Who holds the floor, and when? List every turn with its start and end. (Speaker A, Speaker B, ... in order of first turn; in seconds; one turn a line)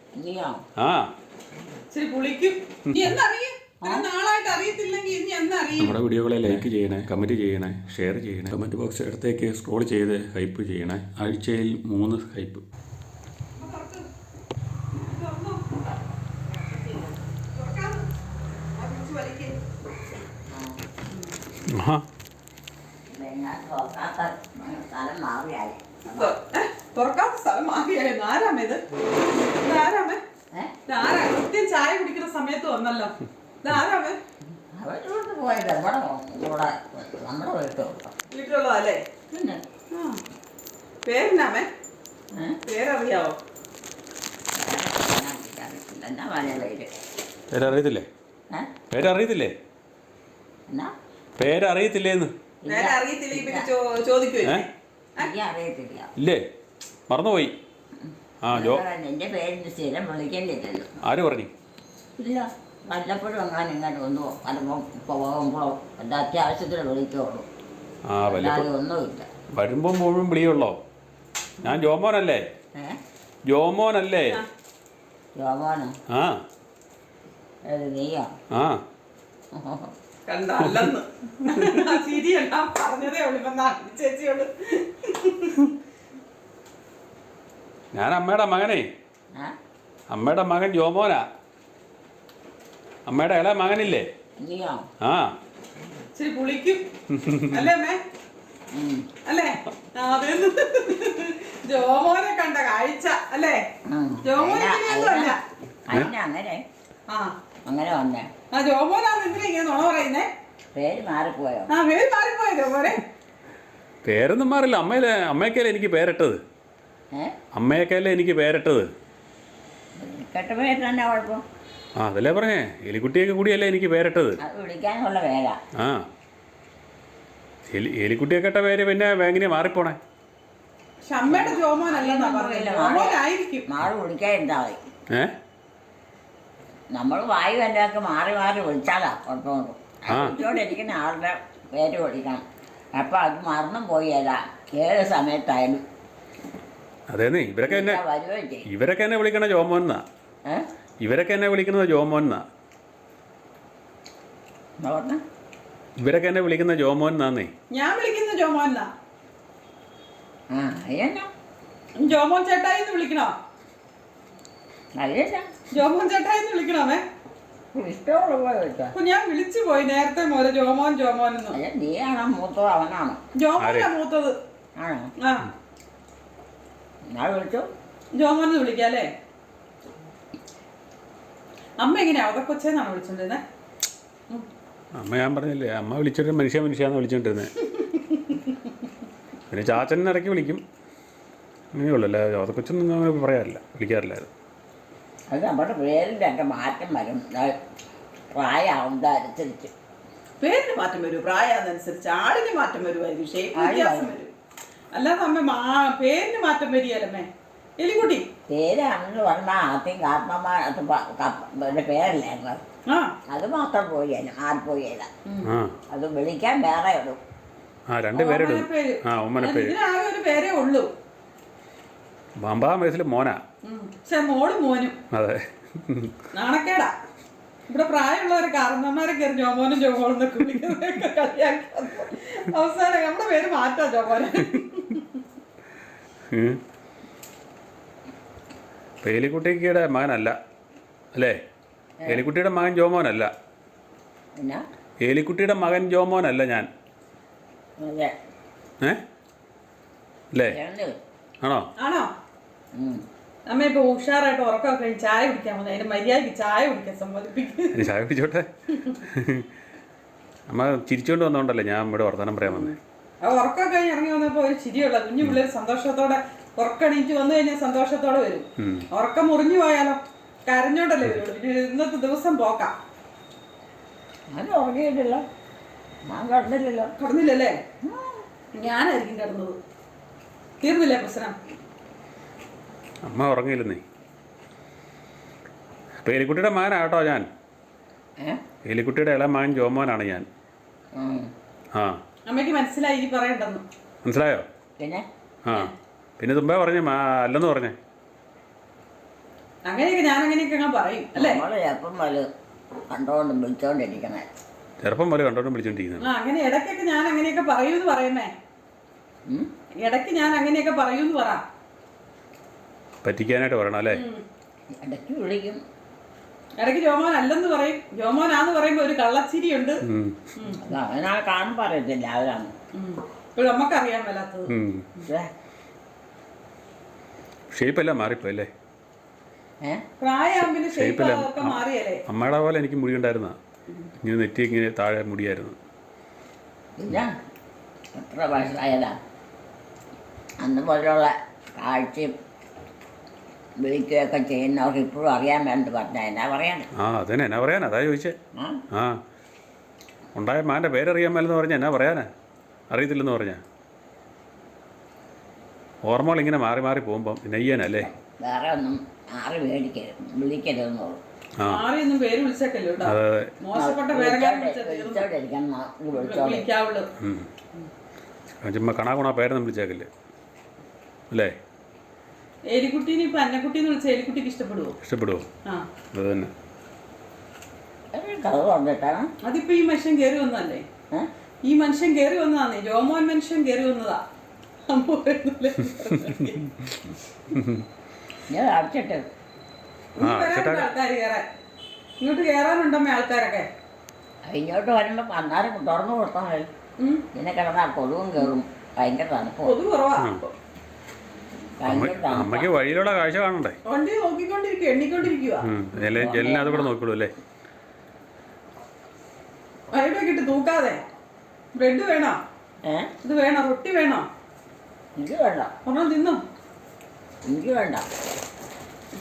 Speaker A: 0.2-0.6
Speaker B: 0.8-1.1
Speaker C: 1.9-6.0
Speaker A: 3.8-4.1
Speaker B: 5.8-12.7
Speaker C: 13.6-14.1
Speaker C: 14.9-15.8
Speaker C: 16.5-18.1
Speaker C: 18.7-19.6
Speaker A: 20.5-20.8
Speaker B: 21.6-22.1
Speaker A: 23.1-26.3
Speaker C: 26.1-28.8
Speaker C: 29.5-30.2
Speaker C: 30.9-34.2
Speaker A: 34.8-38.1
Speaker C: 38.3-39.0
Speaker A: 39.3-39.6
Speaker C: 39.9-40.2
Speaker C: 41.0-41.7
Speaker C: 42.7-43.4
Speaker A: 44.5-47.0
Speaker B: 47.5-48.1
Speaker B: 48.9-49.5
Speaker B: 51.4-52.3
Speaker A: 52.6-53.7
Speaker C: 52.7-55.3
Speaker A: 55.2-56.1
Speaker B: 56.2-56.4
Speaker B: 57.1-57.5
Speaker A: 58.0-60.9
Speaker B: 58.4-58.8
Speaker B: 61.0-61.5
Speaker A: 62.2-67.5
Speaker B: 68.1-68.7
Speaker A: 68.3-69.3
Speaker B: 69.5-70.8
Speaker B: 71.6-72.5
Speaker A: 72.8-73.0
Speaker B: 73.5-74.4
Speaker A: 75.4-76.0
Speaker B: 76.1-76.4
Speaker A: 77.7-78.3
Speaker B: 78.5-78.8
Speaker A: 79.5-79.9
Speaker C: 80.3-85.7
Speaker B: 80.6-80.9
Speaker B: 81.5-81.9
Speaker B: 87.9-88.9
Speaker B: 90.1-91.3
Speaker B: 93.1-94.1
Speaker A: 94.4-94.9
Speaker B: 95.0-95.3
Speaker C: 96.2-96.8
Speaker B: 97.1-97.7
Speaker C: 97.5-98.0
Speaker A: 98.7-99.1
Speaker C: 99.2-103.7
Speaker A: 103.8-106.6
Speaker C: 104.2-105.4
Speaker C: 107.1-107.3
Speaker A: 107.7-108.3
Speaker C: 108.5-110.3
Speaker A: 110.8-111.7
Speaker C: 111.7-113.0
Speaker B: 114.0-116.4
Speaker B: 117.5-118.9
Speaker A: 120.0-121.4
Speaker B: 122.0-124.4
Speaker A: 124.4-125.6
Speaker B: 125.8-126.1
Speaker B: 127.7-130.0
Speaker C: 131.1-133.7
Speaker A: 131.3-134.8
Speaker A: 136.9-145.8
Speaker B: 140.1-140.4
Speaker B: 147.1-148.0
Speaker A: 147.6-148.7
Speaker B: 148.7-150.0
Speaker B: 151.0-152.4
Speaker A: 154.8-155.2
Speaker B: 156.0-157.5
Speaker C: 157.7-158.9
Speaker A: 160.5-161.3
Speaker C: 162.0-163.3
Speaker A: 165.0-165.5
Speaker C: 165.7-167.0
Speaker A: 167.7-168.9
Speaker C: 168.9-171.6
Speaker A: 171.5-173.2
Speaker C: 173.3-174.3
Speaker B: 173.6-173.9
Speaker A: 174.8-175.1
Speaker C: 175.2-175.5
Speaker A: 177.1-177.7
Speaker C: 178.2-179.1
Speaker C: 181.8-183.4
Speaker B: 185.0-187.5
Speaker C: 187.8-188.4
Speaker B: 189.5-190.6
Speaker B: 191.7-194.3
Speaker A: 195.3-197.6
Speaker A: 198.3-199.7
Speaker C: 200.4-204.3
Speaker A: 203.5-204.1
Speaker C: 204.9-207.3
Speaker C: 207.8-208.3
Speaker A: 208.5-212.6
Speaker C: 212.9-213.2
Speaker A: 213.3-215.1
Speaker C: 215.2-215.5
Speaker B: 215.4-215.8
Speaker A: 215.9-217.2
Speaker B: 217.9-219.8
Speaker C: 218.2-220.9
Speaker B: 222.4-223.4
Speaker C: 223.6-225.0
Speaker B: 225.1-226.2
Speaker C: 226.3-226.9
Speaker C: 227.7-235.1
Speaker B: 236.3-236.6
Speaker B: 239.0-240.4
Speaker B: 242.1-243.3
Speaker A: 244.4-244.7
Speaker B: 245.0-246.7
Speaker A: 247.8-248.2
Speaker A: 250.5-251.0
Speaker B: 251.4-251.7
Speaker C: 251.8-252.1
Speaker A: 252.8-253.0
Speaker C: 253.5-257.9
Speaker B: 257.7-259.5
Speaker B: 260.5-262.7
Speaker C: 262.4-272.7
Speaker B: 268.6-268.9
Speaker A: 274.3-275.2
Speaker A: 276.1-277.0
Speaker C: 277.0-277.6
Speaker A: 277.8-278.2
Speaker C: 278.5-279.6
Speaker C: 280.6-281.4
Speaker B: 283.0-283.8
Speaker B: 286.0-287.3
Speaker B: 288.6-290.3
Speaker A: 290.9-291.3
Speaker B: 291.7-292.0
Speaker C: 292.3-293.6
Speaker B: 294.0-294.4
Speaker A: 294.8-295.1
Speaker B: 295.5-297.8
Speaker C: 299.6-301.4
Speaker A: 301.1-302.3
Speaker A: 302.9-304.3
Speaker B: 304.8-306.1
Speaker C: 306.0-308.3
Speaker C: 309.8-311.4
Speaker B: 313.0-314.0
Speaker C: 313.9-314.2
Speaker A: 314.8-315.6
Speaker C: 316.6-319.8
Speaker B: 319.8-320.3
Speaker C: 320.4-320.6
Speaker A: 320.6-322.6
Speaker C: 322.7-324.5
Speaker B: 324.5-324.9
Speaker A: 325.1-325.3
Speaker B: 327.5-328.5
Speaker C: 330.0-332.0
Speaker B: 330.4-333.4
Speaker B: 334.0-335.6
Speaker A: 336.8-337.1
Speaker A: 337.9-339.0
Speaker A: 340.4-342.1
Speaker A: 343.6-346.7
Speaker B: 346.8-348.1
Speaker A: 348.4-348.6
Speaker B: 348.7-349.0
Speaker B: 350.1-352.1
Speaker B: 352.7-353.4
Speaker B: 355.8-357.9
Speaker A: 357.8-361.0
Speaker B: 361.4-361.6
Speaker C: 361.5-365.1
Speaker B: 362.8-363.3
Speaker A: 363.5-366.4
Speaker C: 366.0-366.9
Speaker B: 367.0-367.3
Speaker B: 368.4-369.9
Speaker C: 372.5-374.8
Speaker B: 374.8-375.3
Speaker B: 375.9-376.3
Speaker A: 377.9-379.1
Speaker C: 379.2-380.6
Speaker C: 381.4-384.0
Speaker C: 384.7-386.4
Speaker B: 385.7-386.8
Speaker B: 387.3-387.7
Speaker A: 388.3-389.1
Speaker C: 390.0-391.3
Speaker B: 390.0-390.7
Speaker C: 392.0-393.5
Speaker A: 394.2-396.5
Speaker C: 396.8-397.1
Speaker A: 397.1-399.6
Speaker C: 399.4-400.4
Speaker B: 400.0-400.2
Speaker A: 401.6-402.5
Speaker B: 401.7-403.6
Speaker C: 403.6-405.5
Speaker B: 405.4-407.1
Speaker A: 405.8-406.7
Speaker C: 409.7-410.8
Speaker C: 411.5-412.2
Speaker A: 412.6-412.9
Speaker C: 413.0-414.1
Speaker A: 415.0-415.5
Speaker C: 415.7-416.2
Speaker A: 417.3-417.9